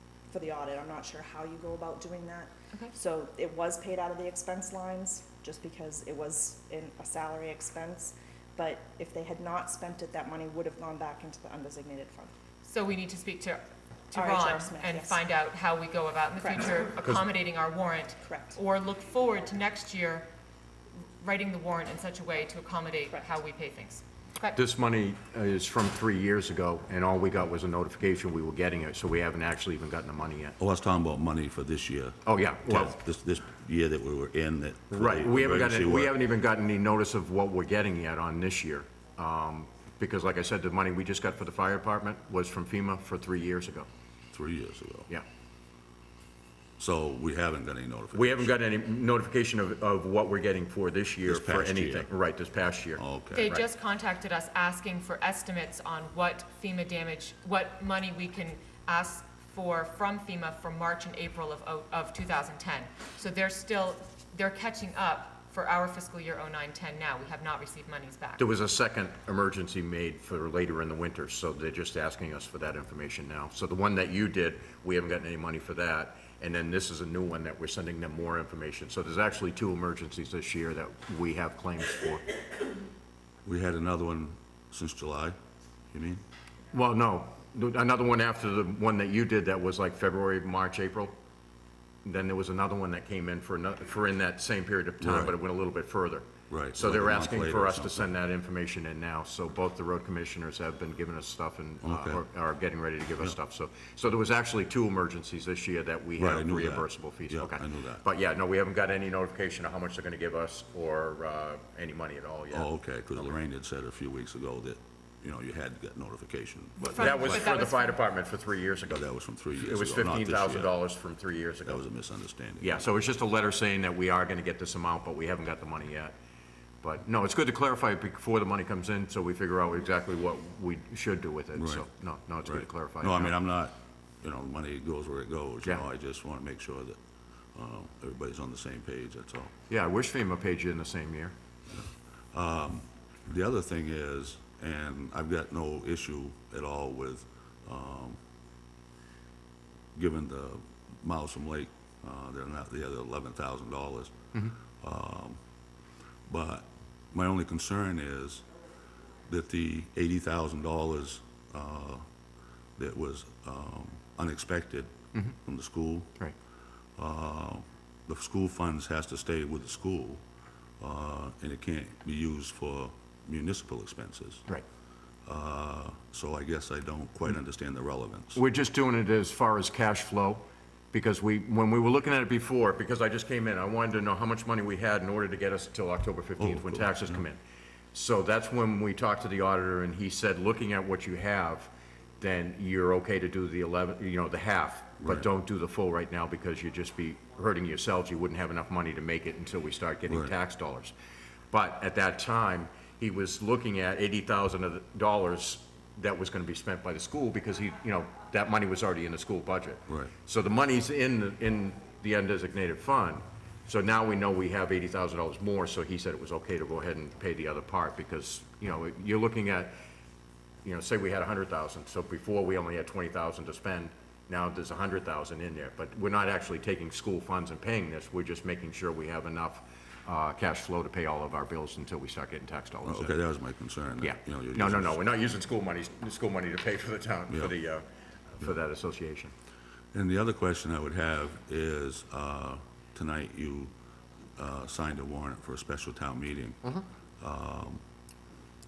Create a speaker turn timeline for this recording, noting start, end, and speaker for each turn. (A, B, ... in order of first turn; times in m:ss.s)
0:00.3-0:12.3 A
0:12.6-0:20.2 B
0:14.1-0:15.2 A
0:18.2-0:18.6 A
0:21.2-0:24.6 B
0:24.5-0:30.6 C
0:30.6-0:36.1 D
0:32.2-0:33.0 C
0:34.9-0:43.9 C
0:44.3-0:45.1 D
0:46.8-0:48.5 D
0:48.1-0:53.6 C
0:51.3-0:52.1 D
0:53.0-0:53.5 D
0:53.3-1:08.4 B
1:08.4-1:22.2 C
1:23.4-1:25.4 D
1:25.9-1:26.2 D
1:26.7-1:31.1 C
1:32.0-1:53.3 C
1:35.0-1:35.3 D
1:36.5-1:38.1 D
1:41.8-1:42.2 D
1:46.2-1:48.0 D
1:52.5-1:57.4 D
1:56.9-1:58.0 B
1:57.0-1:59.0 C
1:58.9-2:00.7 D
1:59.6-2:01.8 C
2:01.6-2:02.8 D
2:02.6-2:06.2 C
2:06.8-2:13.3 C
2:11.6-2:11.8 D
2:12.4-2:17.0 D
2:17.6-2:19.5 D
2:19.7-2:21.3 C
2:22.3-2:28.2 D
2:30.0-2:34.1 D
2:34.8-2:35.4 D
2:36.3-2:38.4 D
2:39.3-2:42.0 D
2:42.8-2:44.9 D
2:45.4-2:46.1 D
2:47.0-2:50.2 D
2:50.8-2:54.4 D
2:55.2-2:58.4 D
2:58.3-3:07.4 C
3:06.4-3:07.2 D
3:07.9-3:20.9 C
3:21.5-3:39.8 C
3:29.9-3:30.1 D
3:40.6-3:53.1 C
3:52.8-3:55.0 D
3:54.0-3:59.3 C
3:59.9-4:03.7 D
4:04.4-4:06.6 D
4:07.2-4:07.8 D